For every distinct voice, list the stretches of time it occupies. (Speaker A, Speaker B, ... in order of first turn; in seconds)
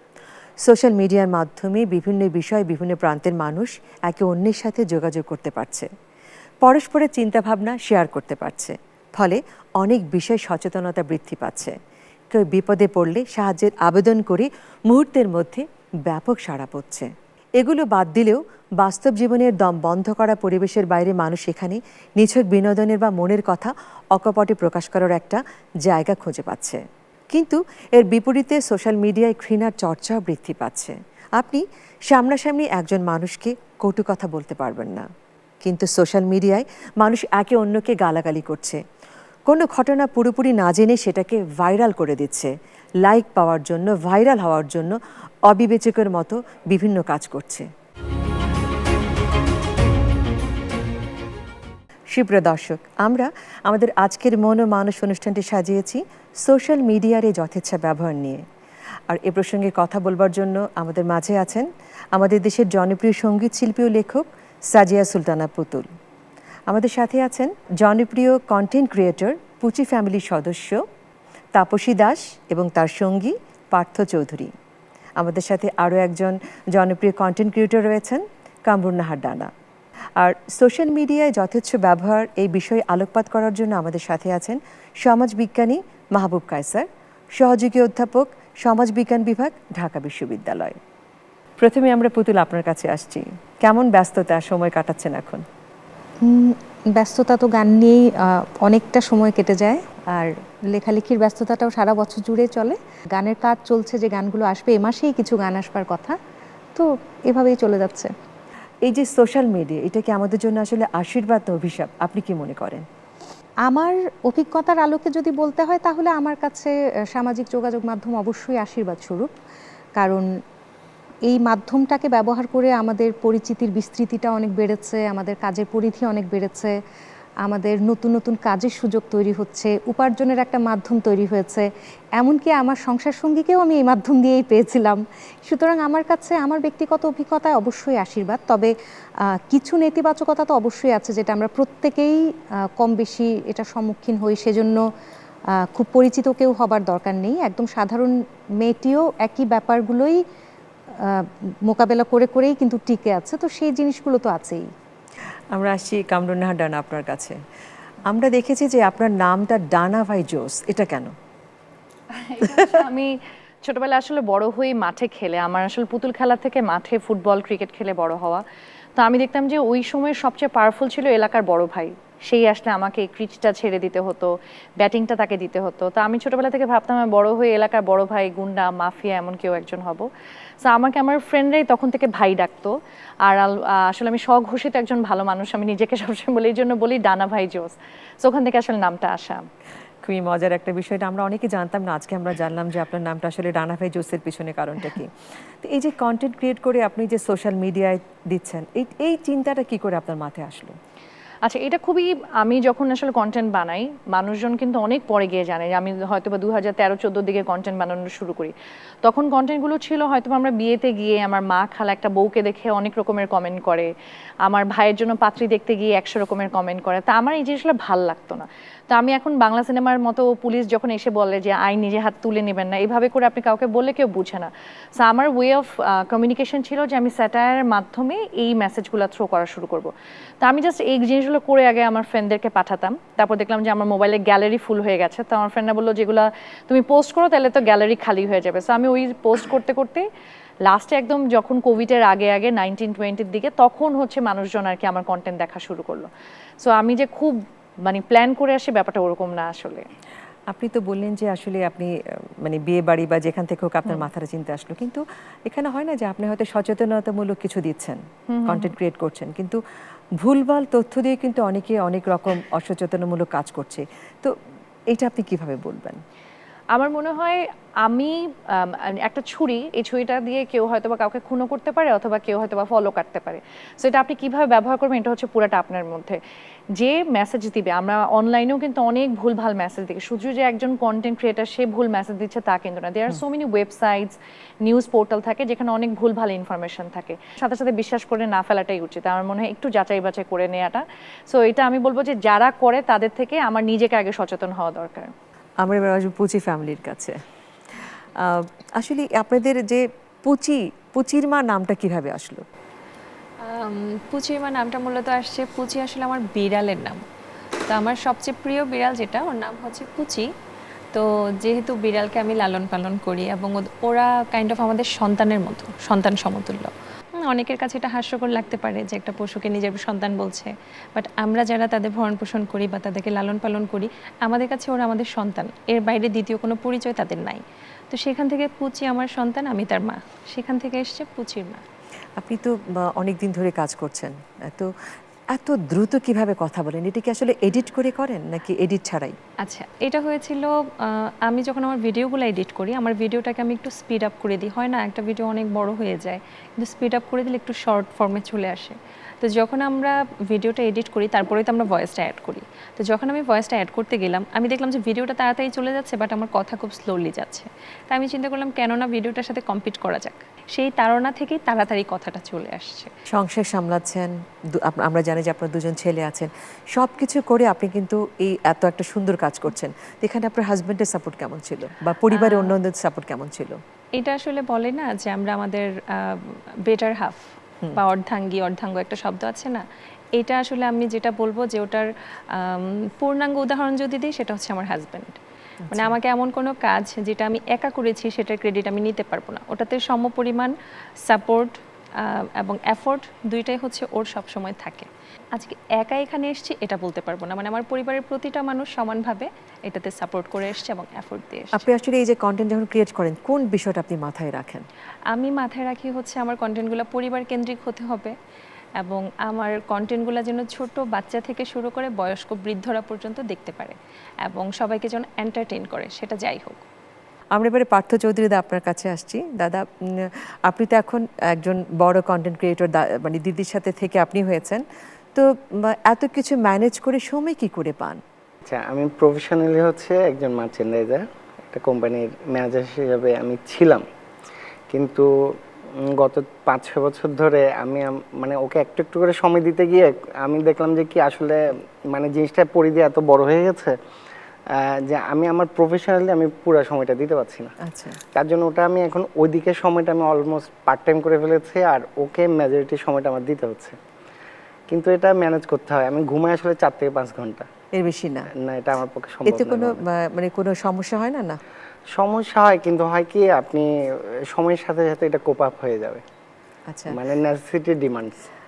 Speaker A: 0.6-5.9, 6.6-11.8, 12.3-26.8, 27.3-35.0, 35.6-38.8, 39.5-47.7, 52.1-58.4, 59.1-65.9, 66.7-70.8, 71.5-74.5, 75.2-79.5, 80.2-90.8, 91.6-95.4, 108.8-112.8, 155.5-157.4, 158.1-161.1, 190.0-200.7, 250.5-259.6, 260.2-264.4, 264.9-266.0, 295.6-297.2, 297.7-302.4, 332.2-334.7, 335.3-339.1, 363.1-373.6, 385.6-385.9, 401.5-404.6, 417.3-424.6, 425.1-428.0, 447.6-448.0, 457.8-458.3, 459.3-461.4, 466.7-467.0
Speaker B: 96.2-106.2, 106.7-108.1, 113.7-119.3, 120.0-120.4, 121.3-126.8, 127.4-138.7, 139.2-144.8, 145.6-150.2, 150.9-154.7
Speaker C: 162.1-168.4, 169.0-180.1, 180.6-189.4, 201.4-213.9, 214.4-240.1, 240.7-246.1, 246.6-249.8, 258.3-258.7, 266.7-276.2, 276.7-295.1
Speaker D: 303.4-307.1, 307.7-310.3, 310.9-331.6, 339.4-362.9, 372.1-372.5, 374.0-379.6, 380.1-385.2, 385.7-401.6, 405.1-408.1, 408.8-416.6
Speaker E: 428.4-433.8, 434.7-443.8, 444.5-447.5, 448.1-453.8, 454.7-457.5, 458.3-459.8, 461.9-466.0, 466.9-468.2